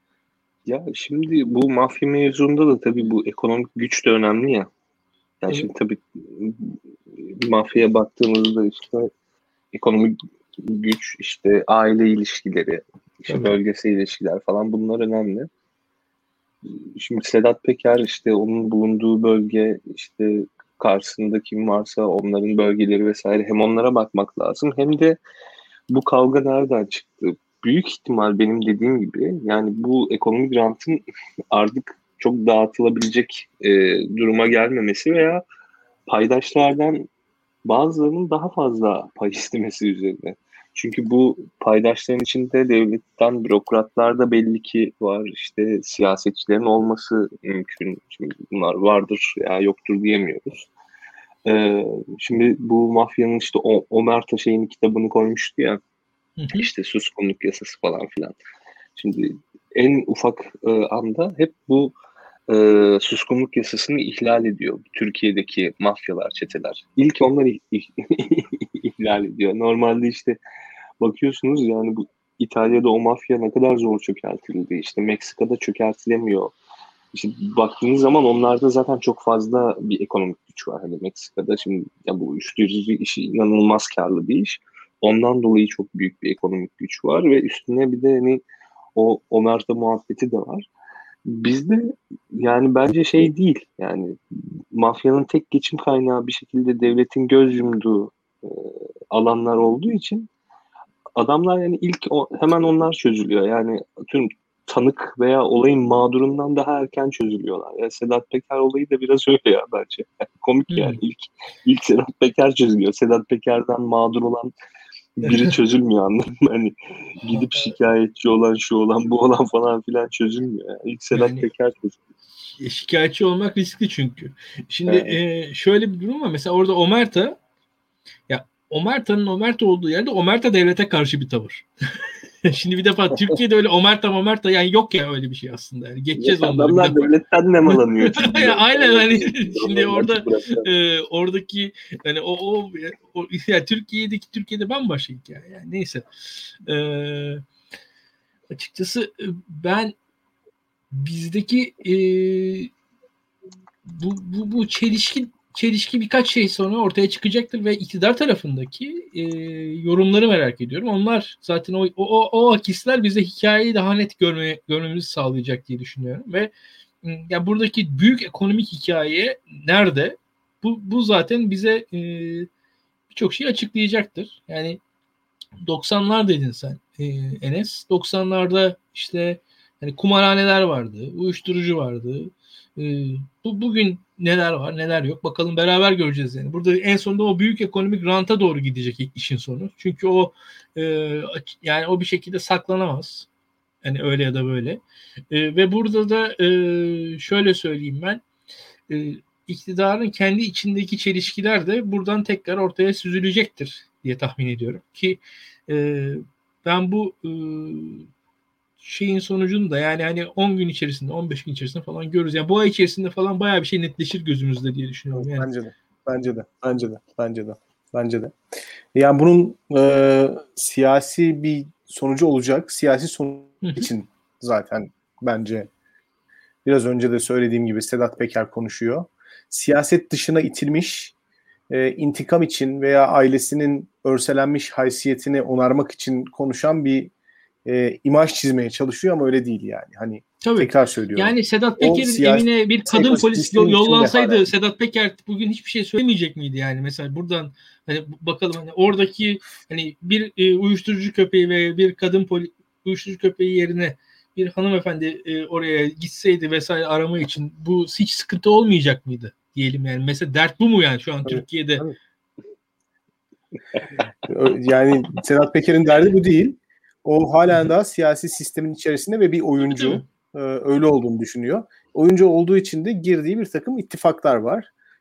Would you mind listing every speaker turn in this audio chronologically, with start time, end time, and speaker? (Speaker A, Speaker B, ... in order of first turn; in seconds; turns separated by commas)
Speaker A: 0.7-4.7, Speaker A: 5.4-9.1, Speaker A: 9.7-15.5, Speaker B: 13.3-13.6, Speaker A: 16.6-25.2, Speaker A: 25.9-35.4, Speaker A: 36.1-37.1, Speaker A: 37.6-50.7, Speaker A: 51.5-55.8, Speaker B: 56.4-56.7, Speaker A: 56.5-58.4, Speaker A: 59.0-62.0, Speaker A: 62.5-70.4, Speaker A: 71.0-76.5, Speaker A: 77.1-88.4, Speaker A: 89.0-90.7, Speaker A: 91.3-94.2, Speaker A: 94.7-100.3, Speaker A: 101.2-114.5, Speaker B: 110.7-111.0, Speaker A: 115.2-122.0, Speaker B: 115.3-115.5, Speaker B: 117.3-117.7, Speaker B: 121.1-121.5, Speaker B: 122.6-127.4, Speaker A: 124.9-125.2, Speaker B: 128.3-131.7, Speaker B: 132.4-137.1, Speaker A: 136.2-140.7, Speaker B: 137.7-146.1, Speaker B: 146.7-147.4, Speaker B: 148.5-149.9, Speaker B: 150.9-152.7, Speaker B: 153.9-166.5, Speaker B: 167.0-172.5, Speaker B: 173.1-174.8, Speaker B: 175.6-193.3, Speaker B: 193.8-198.2, Speaker B: 198.9-208.1, Speaker B: 208.8-215.5, Speaker C: 215.1-218.3, Speaker C: 218.9-225.7, Speaker B: 223.6-223.9, Speaker C: 226.7-231.2, Speaker C: 231.7-237.1, Speaker C: 237.7-244.5, Speaker B: 240.4-261.9, Speaker C: 261.3-262.0, Speaker C: 264.2-274.7, Speaker B: 269.6-270.0